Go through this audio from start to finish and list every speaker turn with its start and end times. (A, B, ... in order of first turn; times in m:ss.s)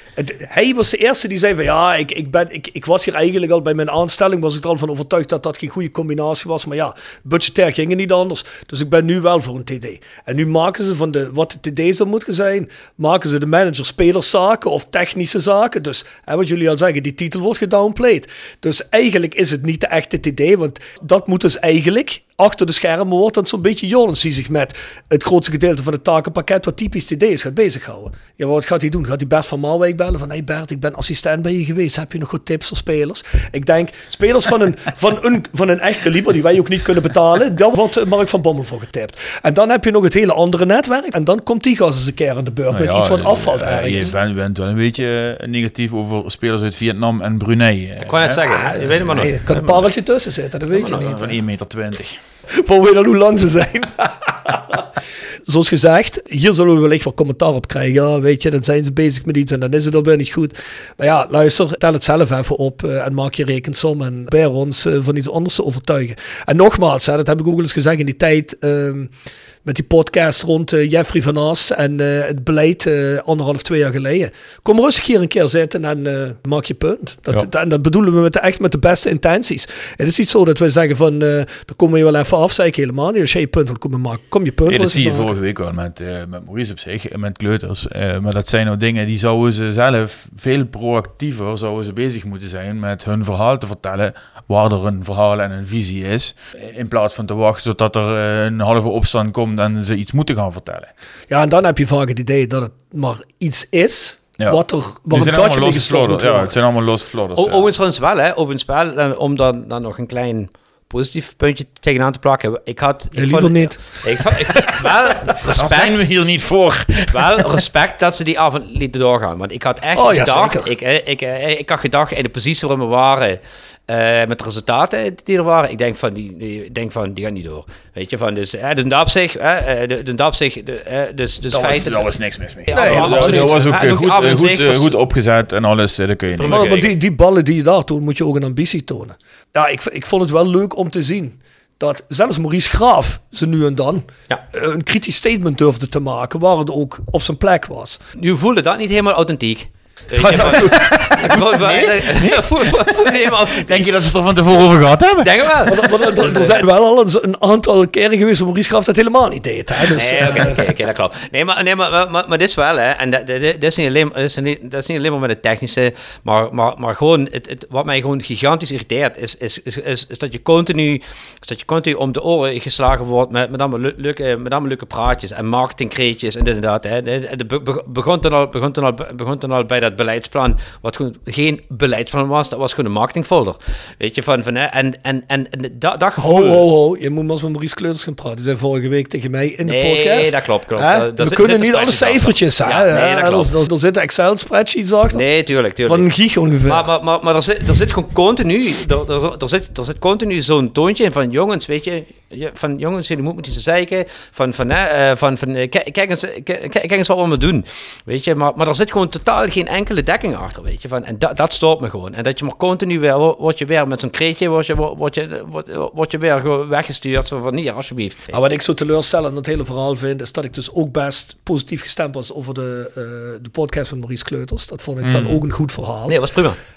0:00.2-0:44.1 A
0:42.7-0:49.4 B
0:48.0-0:49.9 C
0:49.1-0:51.4 A
0:50.9-0:52.2 B
0:52.6-0:54.8 A
0:55.5-1:09.1 A
1:09.6-1:25.3 A
1:24.7-1:40.9 B
1:41.3-1:46.5 A
1:44.4-1:47.7 B
1:47.4-1:56.0 C
1:53.1-1:53.8 A
1:55.6-1:57.5 B
1:57.1-2:12.1 C
1:59.9-2:00.7 A
2:11.5-2:16.8 B
2:12.7-2:15.0 C
2:12.7-2:13.6 A
2:16.4-2:16.9 C
2:16.5-2:28.0 A
2:28.2-2:33.9 C
2:30.2-2:35.8 B
2:30.2-2:31.3 A
2:35.2-2:36.5 C
2:35.7-2:40.6 A
2:39.9-3:06.6 C
3:06.2-3:15.2 A
3:09.7-3:13.5 C
3:15.1-3:16.1 C
3:15.8-3:16.8 A
3:16.6-3:38.4 C
3:38.3-3:46.1 A
3:45.0-3:45.4 B
3:46.1-3:46.6 C